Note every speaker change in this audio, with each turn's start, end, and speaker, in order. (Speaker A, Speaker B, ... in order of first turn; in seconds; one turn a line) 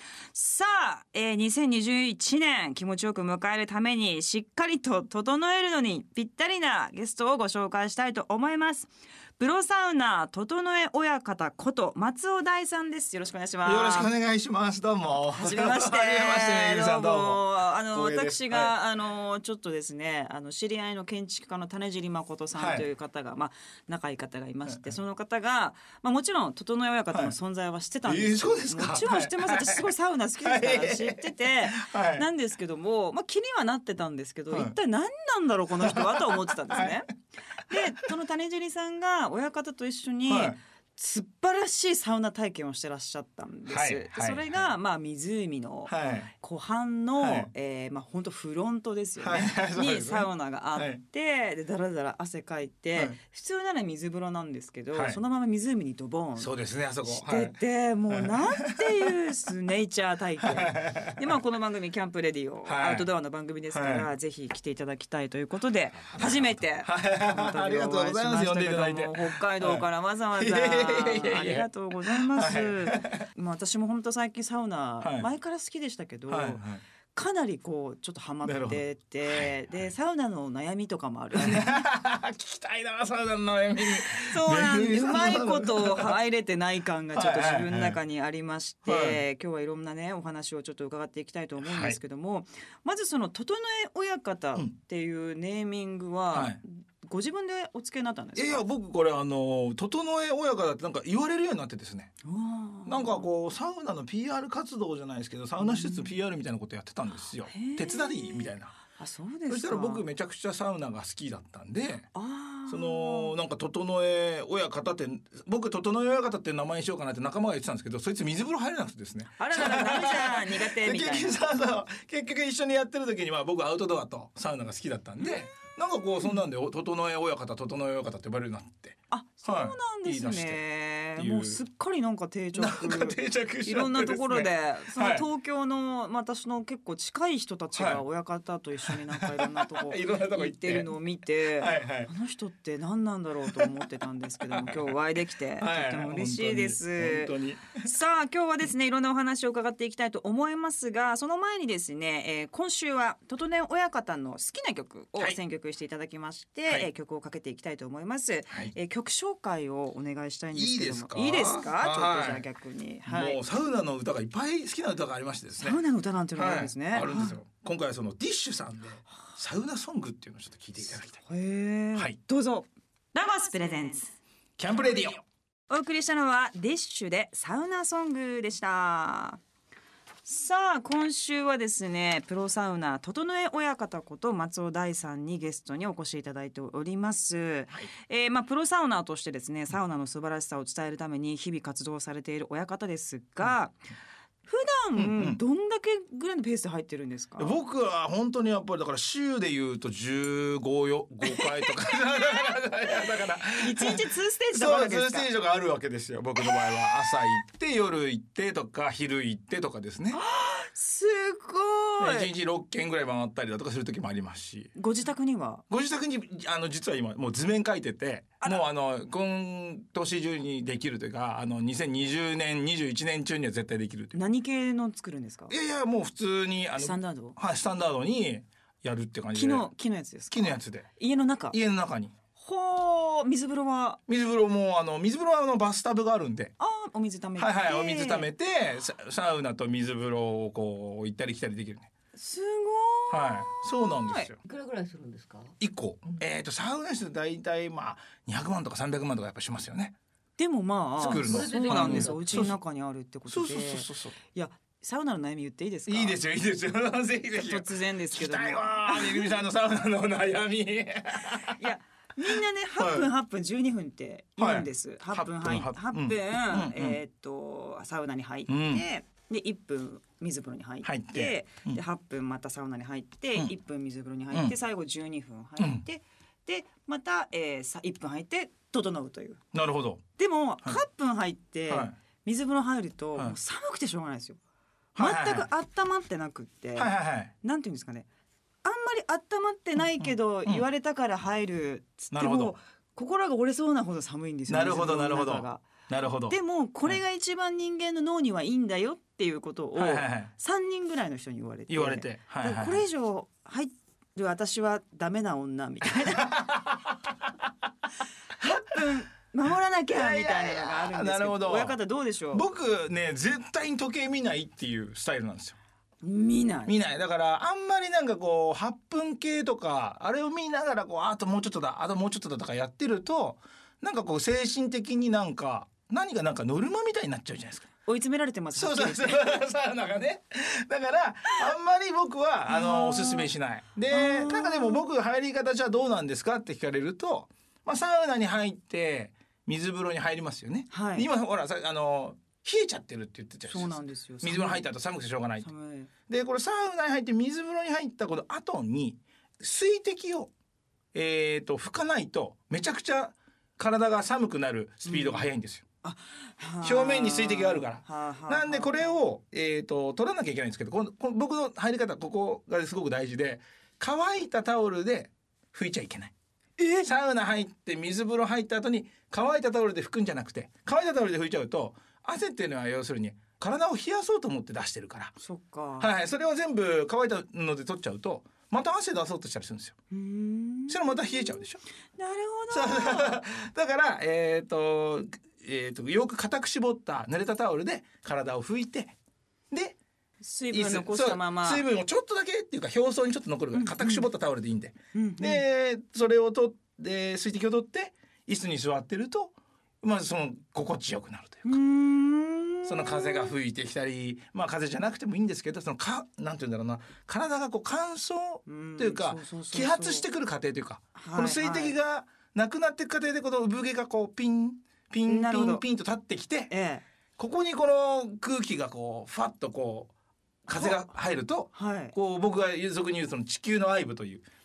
Speaker A: 0.3-14.1
Speaker B: 13.6-18.7
Speaker A: 15.3-37.1
Speaker B: 22.5-22.9
Speaker B: 24.6-24.9
Speaker B: 27.1-27.4
Speaker B: 28.0-32.2
Speaker B: 34.5-34.7
Speaker B: 35.8-37.1
Speaker A: 37.6-81.9
Speaker B: 40.3-40.6
Speaker B: 43.7-44.7
Speaker B: 45.9-46.3
Speaker B: 47.2-47.5
Speaker B: 49.2-51.0
Speaker B: 54.9-55.2
Speaker B: 56.4-57.6
Speaker B: 58.1-59.1
Speaker B: 60.4-61.2
Speaker B: 62.6-63.0
Speaker B: 63.7-64.1
Speaker B: 66.1-73.2
Speaker B: 75.0-75.3
Speaker B: 76.3-76.8
Speaker B: 78.4-79.9
Speaker B: 81.4-86.2
Speaker A: 83.9-98.6
Speaker B: 87.1-88.0
Speaker B: 88.8-89.2
Speaker B: 91.6-92.0
Speaker B: 96.3-96.6
Speaker B: 98.3-102.1
Speaker A: 102.2-103.2
Speaker B: 102.8-108.7
Speaker A: 105.6-106.1
Speaker A: 107.5-110.0
Speaker B: 109.5-112.1
Speaker A: 112.1-113.3
Speaker B: 112.7-131.6
Speaker A: 119.4-121.4
Speaker A: 125.2-125.5
Speaker A: 129.1-163.4
Speaker B: 132.5-135.2
Speaker B: 137.7-138.0
Speaker B: 138.8-142.1
Speaker B: 143.4-143.8
Speaker B: 144.4-145.0
Speaker B: 145.6-147.9
Speaker B: 160.5-162.5
Speaker B: 163.1-165.8
Speaker A: 165.6-167.4
Speaker B: 166.3-171.2
Speaker A: 171.2-174.2
Speaker B: 174.6-175.2
Speaker A: 175.7-179.4
Speaker A: 180.2-193.8
Speaker A: 194.4-197.6
Speaker B: 194.9-195.4
Speaker B: 197.4-210.2
Speaker A: 201.2-205.3
Speaker A: 206.4-207.1
Speaker A: 210.1-212.3
Speaker B: 212.0-214.7
Speaker A: 214.7-215.6
Speaker B: 215.7-224.2
Speaker A: 224.1-225.5
Speaker B: 225.5-229.7
Speaker A: 226.8-227.4
Speaker A: 229.3-231.6
Speaker B: 230.3-230.9
Speaker B: 231.5-232.1
Speaker A: 232.4-234.0
Speaker B: 234.1-236.5
Speaker A: 236.6-238.3
Speaker B: 237.4-241.9
Speaker A: 242.1-244.3
Speaker B: 243.1-244.4
Speaker C: 244.4-245.6
Speaker B: 245.6-249.9
Speaker A: 250.4-256.2
Speaker B: 251.0-252.6
Speaker C: 251.0-252.5
Speaker B: 253.3-254.2
Speaker B: 255.9-261.6
Speaker A: 257.3-259.3
Speaker A: 261.4-279.4
Speaker B: 262.3-263.1
Speaker B: 264.4-267.0
Speaker B: 268.5-268.8
Speaker B: 270.8-271.8
Speaker B: 274.3-274.6
Speaker B: 275.6-275.8
Speaker B: 279.5-280.0
Speaker A: 280.2-284.4
Speaker B: 281.7-281.9
Speaker B: 284.9-285.5
Speaker A: 285.0-288.1
Speaker B: 286.8-287.3
Speaker A: 288.6-295.6
Speaker B: 290.0-290.6
Speaker B: 292.1-292.6
Speaker B: 294.5-297.0
Speaker A: 296.3-306.7
Speaker B: 299.7-300.3
Speaker B: 301.7-302.8
Speaker B: 306.1-306.9
Speaker A: 308.4-312.4
Speaker B: 309.9-311.8
Speaker B: 312.3-315.6
Speaker A: 316.0-316.7
Speaker B: 316.6-327.7
Speaker A: 327.9-329.3
Speaker B: 328.5-345.5
Speaker A: 332.5-333.3
Speaker A: 333.9-334.9
Speaker A: 340.7-341.1
Speaker A: 343.5-344.6
Speaker A: 345.4-345.9
Speaker B: 346.1-350.3
Speaker B: 350.9-355.6
Speaker A: 354.8-355.3
Speaker A: 355.8-358.9
Speaker B: 356.6-366.1
Speaker A: 366.6-366.9
Speaker B: 366.8-375.1
Speaker A: 375.2-375.9
Speaker B: 375.8-379.8
Speaker A: 379.9-381.4
Speaker B: 380.7-381.6
Speaker A: 381.9-383.2
Speaker B: 382.5-388.9
Speaker B: 389.5-389.8
Speaker A: 390.2-391.6
Speaker B: 390.5-401.5
Speaker A: 393.5-394.1
Speaker A: 394.9-395.4
Speaker A: 401.4-403.3
Speaker B: 402.6-416.5
Speaker A: 408.4-410.1
Speaker A: 410.9-411.8
Speaker A: 415.1-415.6
Speaker A: 416.5-416.8
Speaker B: 417.2-419.9
Speaker B: 420.4-424.2
Speaker A: 420.5-420.9
Speaker A: 421.5-421.9